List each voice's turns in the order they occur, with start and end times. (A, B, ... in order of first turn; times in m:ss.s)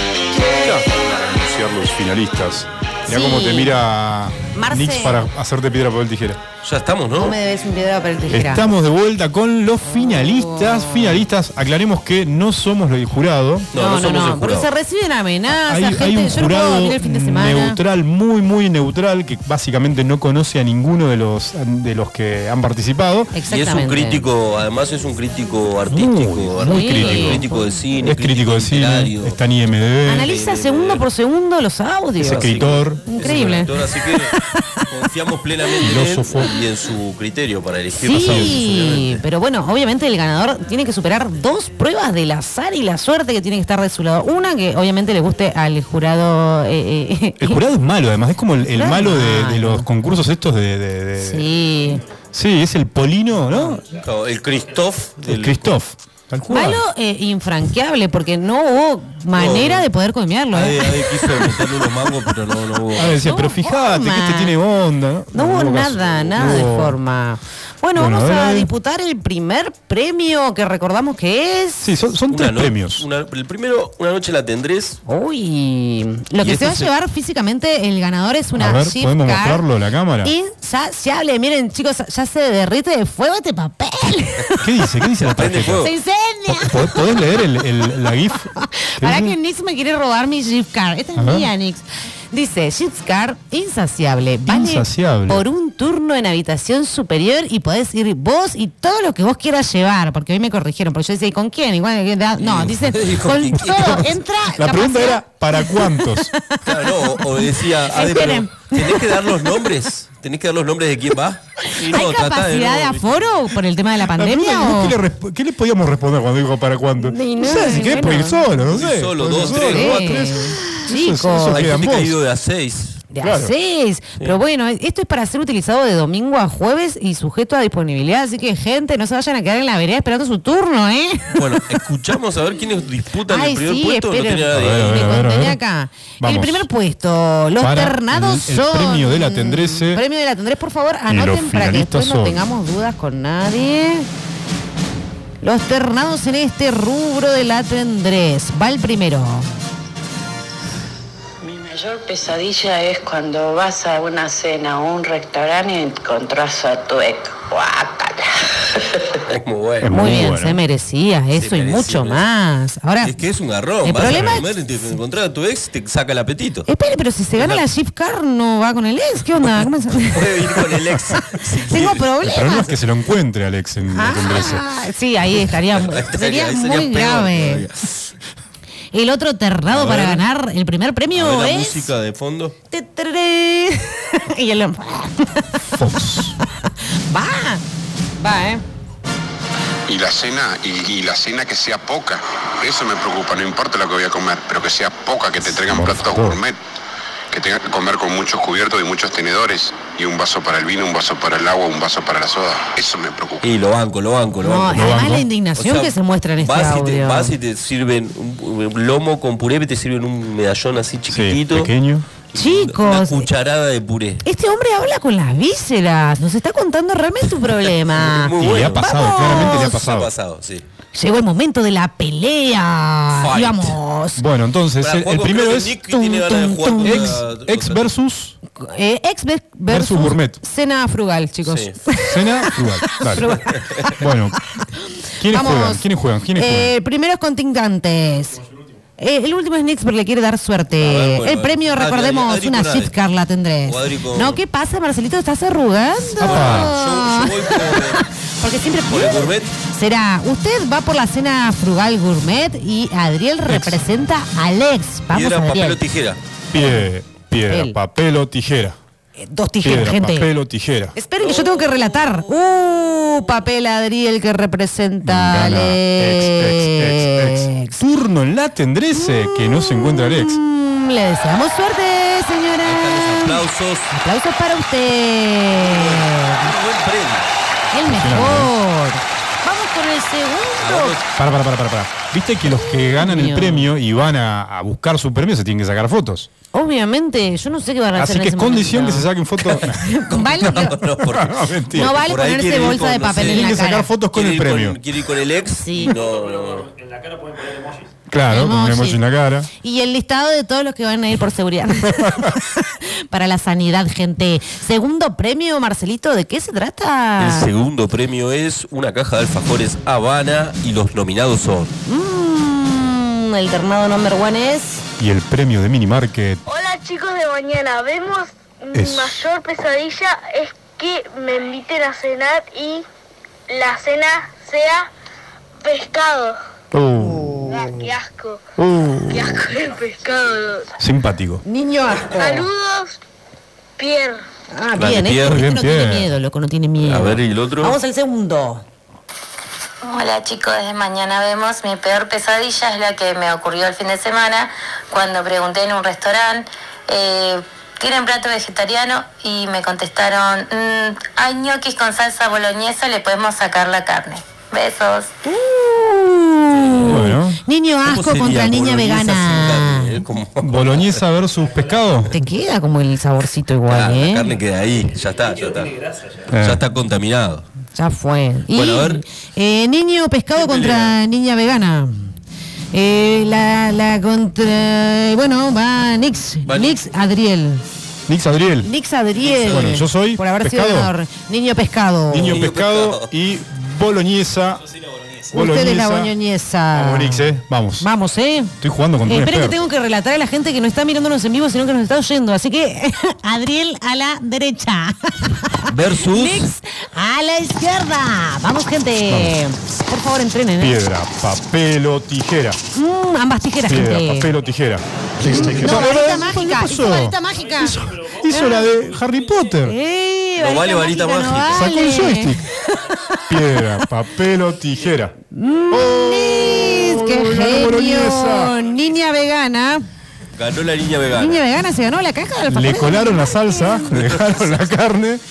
0:00.4-0:06.4 A
0:03.1-0:03.7 B
0:04.5-0:05.2 B
0:06.6-0:07.4 C
0:07.2-0:08.7 B
0:08.3-0:13.7 A
0:09.9-0:11.2 B
0:13.7-0:14.7 C
0:13.8-0:17.8 B
0:15.5-0:23.3 A
0:23.3-0:24.2 B
0:23.5-0:29.4 C
0:25.9-0:27.4 A
0:26.6-0:27.6 B
0:28.0-0:30.3 A
0:30.1-0:33.7 B
0:30.2-0:31.0 C
0:32.2-0:33.0 A
0:32.2-0:34.3 C
0:34.9-0:39.2 C
0:35.8-0:36.5 A
0:38.0-0:47.6 B
0:38.2-0:38.5 A
0:47.4-0:51.5 A
0:48.8-0:49.8 B
0:51.2-0:52.0 B
0:52.3-0:53.8 A
0:53.9-0:55.8 C
0:55.2-0:56.8 A
0:56.5-1:01.2 B
0:59.3-0:59.9 C
1:00.5-1:03.2 C
1:03.0-1:07.0 A
1:03.1-1:04.5 B
1:05.3-1:11.9 B
1:08.0-1:08.7 A
1:11.8-1:13.1 A
1:12.3-1:15.0 C
1:15.1-1:19.6 B
1:16.4-1:16.9 C
1:18.6-1:20.3 A
1:20.2-1:24.4 B
1:24.6-1:25.9 A
1:25.2-1:25.9 C
1:25.8-1:27.2 B
1:26.5-1:28.5 A
1:28.6-1:46.5 B
1:29.0-1:29.3 A
1:31.2-1:31.5 A
1:34.5-1:35.4 A
1:42.4-1:44.1 C
1:44.6-1:46.3 A
1:46.6-1:53.5 C
1:47.2-1:49.2 B
1:51.9-1:55.0 B
1:54.1-2:02.2 A
1:57.0-1:58.5 B
1:58.6-2:00.4 C
1:59.5-2:01.7 B
2:01.5-2:03.0 C
2:03.1-2:11.4 B
2:03.2-2:03.5 A
2:11.4-2:15.0 C
2:13.3-2:24.1 B
2:14.5-2:15.6 A
2:16.2-2:16.6 A
2:17.6-2:20.0 A
2:21.1-2:22.4 A
2:25.4-2:29.5 B
2:31.4-2:38.3 D
2:39.3-2:39.9 C
2:39.8-2:40.6 A
2:39.9-2:43.1 B
2:41.4-2:42.2 C
2:43.0-2:46.7 C
2:43.8-2:44.5 B
2:46.7-2:50.3 B
2:47.4-2:47.6 C
2:50.1-2:52.1 C
2:51.7-2:52.7 B
2:52.2-2:54.6 A
2:53.9-2:57.6 B
2:55.7-2:57.9 C
2:58.9-3:01.9 B
2:59.7-3:00.2 C
3:01.1-3:02.5 C
3:02.7-3:05.4 B
3:05.8-3:06.4 A
3:07.1-3:07.6 B
3:08.2-3:08.6 B
3:09.9-3:16.6 E
3:15.4-3:16.4 A
3:17.3-3:23.5 E
3:23.4-3:31.7 C
3:24.4-3:27.3 B
3:24.7-3:25.3 A
3:31.1-3:32.1 A
3:32.3-3:34.2 C
3:32.4-3:33.3 B
3:34.2-3:39.8 B
3:37.6-3:40.6 C
3:38.4-3:40.1 A
3:41.0-3:44.2 B
3:43.2-3:43.8 C
3:44.2-3:45.8 A
3:44.8-3:47.9 C
3:45.9-3:47.1 B
3:46.8-3:48.4 A
3:48.6-3:52.1 B
3:49.7-3:50.4 A
3:51.4-3:51.8 C
3:52.1-3:53.3 A
3:53.2-3:53.5 B
3:54.0-3:54.4 A
3:55.2-3:56.7 A
3:55.3-3:55.8 B
3:56.4-3:58.4 B
3:59.0-4:15.8 B
4:00.8-4:02.9 C
4:03.7-4:04.4 C
4:06.2-4:06.7 A
4:06.2-4:08.0 C
4:08.9-4:09.5 C
4:13.5-4:13.8 A
4:15.1-4:16.2 C
4:16.5-4:18.8 A
4:17.5-4:17.8 B
4:19.2-4:20.3 B
4:19.6-4:20.9 A
4:21.0-4:27.8 B
4:21.2-4:22.3 C
4:25.0-4:30.4 A
4:29.0-4:33.4 B
4:32.6-4:33.9 C
4:33.9-4:36.5 B
4:35.5-4:37.3 C
4:37.7-4:41.0 B
4:37.9-4:38.5 A
4:40.6-4:41.0 C
4:41.2-4:46.3 A
4:42.6-4:43.7 B
4:46.5-4:50.8 B
4:48.0-4:49.8 A
4:50.1-4:53.6 C
4:50.6-4:51.9 A
4:51.8-4:53.9 B
4:53.2-4:54.8 A
4:54.1-4:56.7 C
4:55.6-4:56.0 B
4:58.1-4:59.5 A
4:58.3-4:59.0 B
4:59.6-5:07.5 B
5:07.2-5:11.7 C
5:11.9-5:14.8 B
5:15.0-5:16.4 A
5:16.5-5:22.8 F
5:18.7-5:19.2 A
5:23.5-5:24.9 F
5:25.6-5:26.4 F
5:26.7-5:27.6 A
5:27.0-5:27.4 B
5:27.5-5:28.4 F
5:28.6-5:29.4 A
5:29.1-5:30.7 F
5:30.8-5:31.4 A
5:31.5-5:32.5 B
5:32.2-5:33.0 F
5:33.8-5:34.2 F
5:34.5-5:38.6 B
5:34.8-5:35.4 C
5:35.2-5:36.1 A
5:36.8-5:37.8 C
5:39.8-5:55.1 G
5:55.3-6:00.0 B
5:56.5-5:57.1 C
5:56.9-5:57.4 A
5:57.8-6:01.0 C
6:00.4-6:02.1 A
6:02.1-6:04.3 B
6:03.7-6:05.8 C
6:06.3-6:06.6 A
6:06.4-6:07.5 C
6:07.8-6:12.1 B
6:08.5-6:09.0 C
6:10.4-6:11.0 C
6:12.7-6:17.6 B
6:16.5-6:16.8 C
6:18.1-6:18.7 A
6:18.6-6:22.4 B
6:19.2-6:19.6 C
6:19.4-6:20.9 A
6:22.1-6:24.6 A
6:22.2-6:23.1 C
6:25.3-6:26.1 A
6:25.3-6:27.3 B
6:26.7-6:27.9 A
6:27.8-6:28.5 B
6:28.6-6:29.6 A
6:29.1-6:40.8 B
6:35.7-6:36.5 C
6:39.1-6:39.4 A
6:40.6-6:42.6 A
6:42.8-6:44.3 B
6:43.6-6:49.8 A
6:45.3-6:47.8 B
6:48.3-6:48.7 B
6:49.6-6:53.2 B
6:50.4-6:51.7 C
6:51.5-6:52.4 A
6:53.3-6:55.1 A
6:55.3-6:59.8 B
6:55.7-6:58.6 A
7:00.4-7:01.4 C
7:01.2-7:03.9 B
7:02.5-7:05.2 A
7:03.9-7:04.7 C